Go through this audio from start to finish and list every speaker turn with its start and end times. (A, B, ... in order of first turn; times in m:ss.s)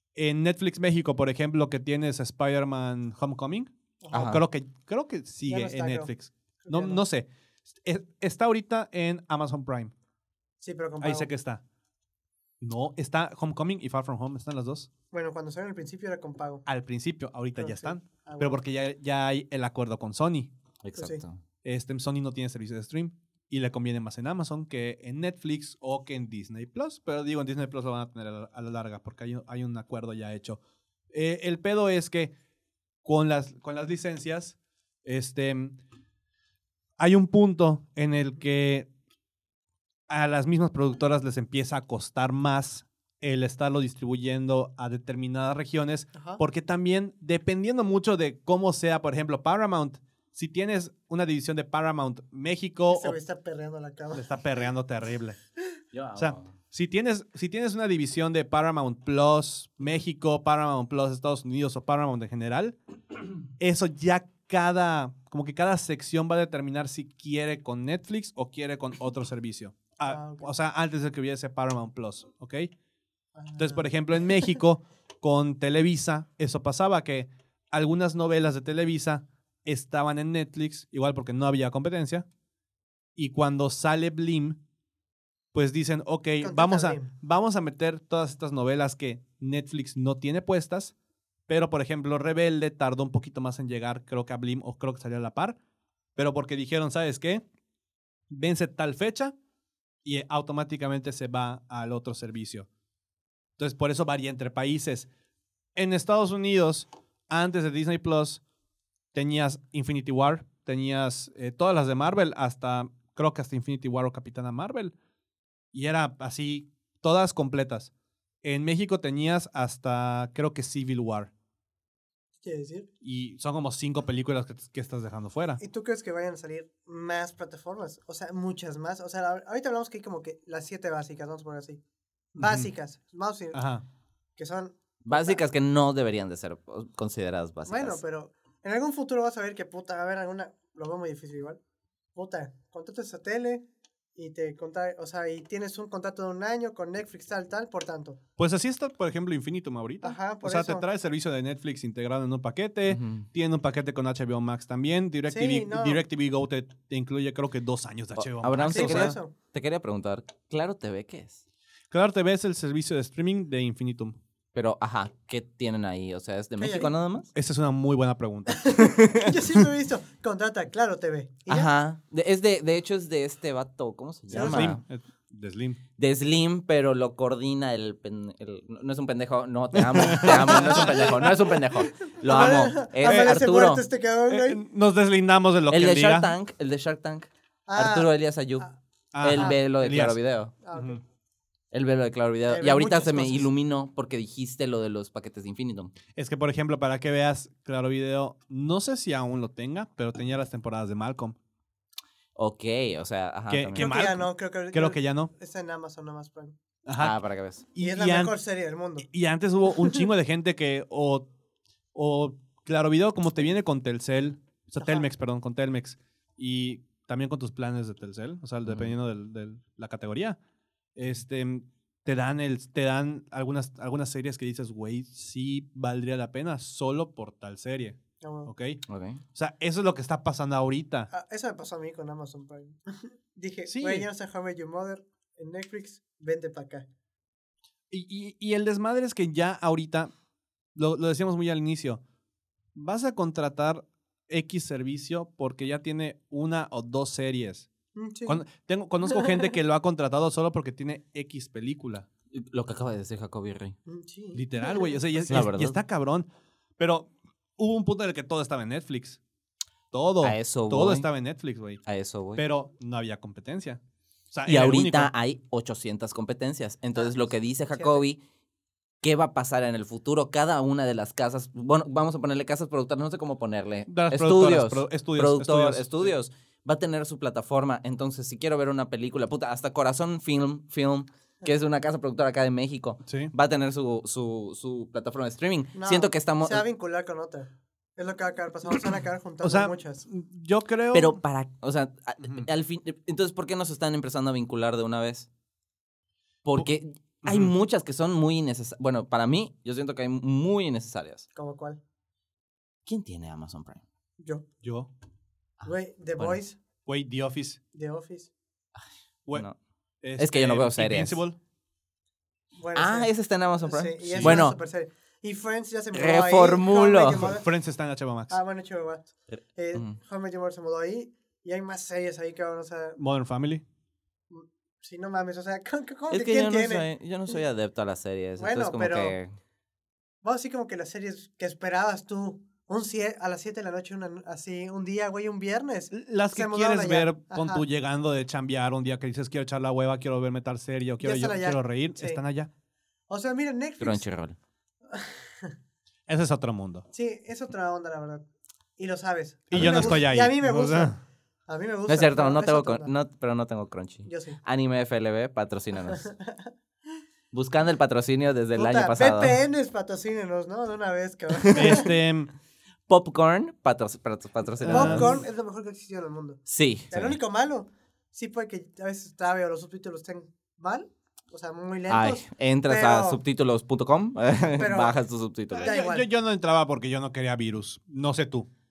0:00.2-0:07.3 A
0:04.0-0:04.4 B
0:04.1-0:04.4 C
0:05.5-0:07.0 B
0:07.8-0:09.9 A
0:10.6-0:11.3 B
0:11.0-0:11.6 A
0:12.6-0:14.9 A
0:15.1-0:16.7 B
0:16.7-0:20.5 A
0:17.6-0:18.6 B
0:20.8-0:21.4 C
0:21.0-0:21.2 B
0:21.6-0:30.6 A
0:31.1-0:32.3 A
0:33.0-0:35.8 A
0:37.0-0:38.9 A
0:40.1-0:53.2 A
0:46.2-0:46.4 B
0:52.9-0:54.4 B
0:54.1-0:55.4 A
0:55.9-0:56.5 C
0:56.2-1:02.8 A
1:03.5-1:12.7 A
1:10.1-1:10.5 B
1:13.4-1:14.4 B
1:13.6-1:22.3 A
1:23.2-1:24.6 A
1:25.5-1:30.9 A
1:26.4-1:27.1 B
1:31.5-1:35.6 A
1:36.2-1:37.4 A
1:38.3-1:39.4 A
1:40.0-1:42.7 A
1:43.6-1:45.1 A
1:45.8-1:48.4 A
1:49.1-1:54.9 A
1:55.7-1:57.9 A
1:58.4-2:01.3 A
2:02.4-2:02.9 B
2:03.0-2:05.6 A
2:05.6-2:11.8 B
2:12.4-2:13.6 B
2:12.4-2:12.7 A
2:13.5-2:13.8 A
2:14.4-2:15.4 B
2:15.0-2:18.0 C
2:17.7-2:21.6 B
2:22.2-2:28.2 B
2:28.4-2:39.2 A
2:30.0-2:30.9 B
2:32.9-2:33.3 C
2:35.3-2:36.0 B
2:38.2-2:41.4 C
2:38.6-2:39.3 B
2:41.9-2:44.2 A
2:44.5-2:47.3 C
2:46.6-2:46.9 B
2:47.3-2:49.0 A
2:48.5-2:51.7 B
2:49.0-2:49.3 C
2:51.5-2:54.8 C
2:54.3-2:55.8 A
2:54.3-2:54.8 B
2:56.0-3:03.8 C
2:59.7-3:01.4 A
3:00.1-3:04.6 B
3:02.3-3:03.4 A
3:04.3-3:06.3 A
3:05.7-3:08.7 C
3:07.7-3:08.8 B
3:09.1-3:10.2 A
3:09.2-3:10.5 C
3:10.6-3:11.0 B
3:10.7-3:11.0 A
3:11.7-3:15.9 C
3:12.5-3:13.5 B
3:16.1-3:21.4 A
3:22.4-3:23.9 C
3:23.5-3:25.3 A
3:23.8-3:26.6 B
3:26.9-3:27.2 A
3:27.0-3:27.7 C
3:27.7-3:28.4 A
3:27.8-3:29.1 B
3:29.1-3:31.3 A
3:31.9-3:40.4 A
3:34.8-3:35.1 B
3:38.6-3:38.9 C
3:41.0-3:48.8 A
3:48.2-3:48.5 B
3:48.9-3:49.2 C
3:49.4-3:51.1 A
3:51.1-3:56.9 B
3:53.7-3:54.1 A
3:57.9-4:00.1 A
4:00.8-4:02.0 A
4:02.8-4:07.7 A
4:08.0-4:08.4 B
4:08.3-4:12.1 A
4:09.1-4:09.5 B
4:12.3-4:13.8 C
4:13.9-4:15.5 B
4:14.3-4:19.2 A
4:15.3-4:15.8 C
4:19.9-4:21.8 A
4:20.2-4:21.1 C
4:21.9-4:22.4 C
4:22.4-4:23.8 A
4:24.3-4:25.1 A
4:24.5-4:28.2 C
4:27.7-4:28.0 B
4:29.0-4:46.6 C
4:33.9-4:36.1 A
4:43.1-4:43.3 A
4:45.8-4:50.1 B
4:49.4-4:51.2 A
4:50.9-4:55.3 C
4:52.2-4:52.5 A
4:56.4-5:01.3 C
4:57.2-4:57.5 A
5:01.4-5:01.8 B
5:02.9-5:03.8 C
5:04.2-5:04.4 B
5:04.6-5:04.9 A
5:05.6-5:06.4 C
5:05.6-5:06.6 B
5:06.9-5:07.6 A
5:07.7-5:08.3 B
5:10.0-5:11.4 A
5:10.2-5:11.2 C
5:12.6-5:17.5 B
5:12.8-5:14.6 C
5:14.0-5:14.4 A
5:15.9-5:17.3 C
5:17.2-5:18.4 A
5:18.3-5:23.0 B
5:19.3-5:20.0 C
5:23.0-5:23.6 A
5:24.3-5:26.9 B
5:26.1-5:29.3 C
5:28.4-5:29.2 B
5:30.2-5:37.6 B
5:35.9-5:42.5 A
5:41.0-5:42.2 B
5:43.1-5:44.0 B
5:43.8-5:44.4 C
5:44.9-5:45.5 B
5:46.1-5:46.8 A
5:46.9-5:48.2 B
5:48.8-5:52.9 B
5:49.5-5:51.0 A
5:51.9-5:56.1 C
5:54.1-5:54.4 B
5:55.9-5:56.5 B
5:57.3-5:59.4 C
5:58.6-6:01.9 B
6:01.3-6:01.9 C
6:01.5-6:02.3 A
6:02.9-6:05.2 C
6:04.6-6:05.2 A
6:04.7-6:13.2 B
6:06.5-6:07.2 C
6:11.9-6:15.7 C
6:14.6-6:15.0 B
6:15.5-6:18.5 A
6:15.6-6:16.1 B